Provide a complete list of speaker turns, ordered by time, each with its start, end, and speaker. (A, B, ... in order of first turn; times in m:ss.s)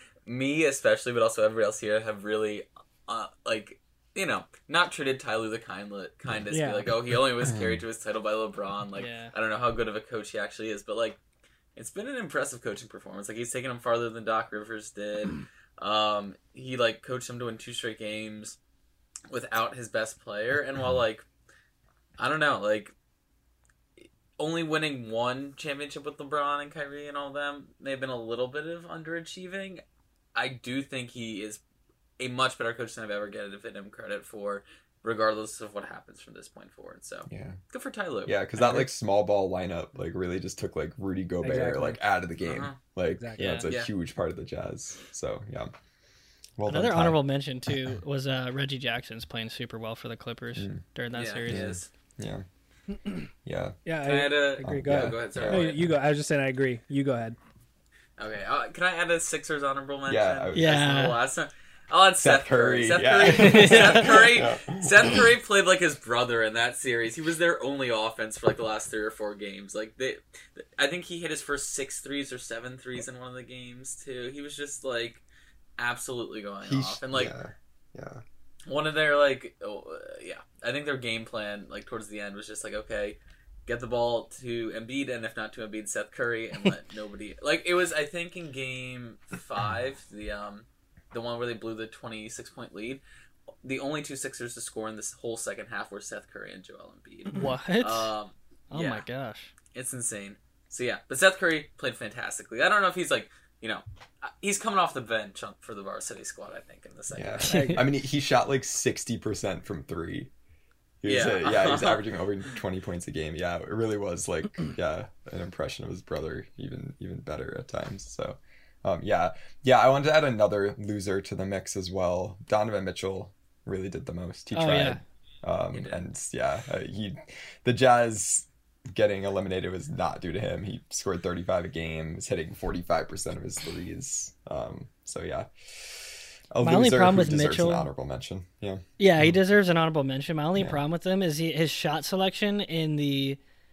0:00.2-0:11.2 A
0:06.5-0:06.9 B
0:07.4-0:07.8 C
0:09.0-0:09.3 D
0:11.8-0:18.6 A
0:19.3-0:21.2 A
0:22.2-0:22.9 A
0:24.4-0:29.8 A
0:30.4-0:31.6 A
0:32.2-0:38.4 A
0:37.3-0:37.6 C
0:38.2-0:45.7 C
0:41.4-0:42.0 B
0:42.4-0:42.8 A
0:43.2-0:43.7 B
0:43.4-0:43.7 D
0:43.5-0:43.9 A
0:46.6-0:47.7 C
0:46.7-0:51.8 D
0:50.6-0:50.8 C
0:51.1-0:51.9 A
0:51.5-0:52.4 C
0:53.4-0:53.8 C
0:53.8-0:57.4 B
0:54.0-0:55.8 A
0:54.6-0:55.8 C
0:58.2-1:15.2 A
1:00.1-1:00.8 C
1:00.5-1:01.2 D
1:02.2-1:05.2 C
1:03.2-1:04.2 D
1:15.8-1:17.3 A
1:16.6-1:18.2 C
1:18.7-1:33.0 A
1:33.6-1:39.0 A
1:37.3-1:38.1 D
1:38.7-1:39.5 D
1:39.7-1:47.6 A
1:47.1-1:50.3 C
1:47.4-1:47.8 D
1:47.5-1:47.8 B
1:51.0-2:19.4 C
1:51.0-1:52.0 A
2:04.5-2:05.0 D
2:16.6-2:17.9 D
2:19.0-2:23.4 D
2:20.6-2:20.8 C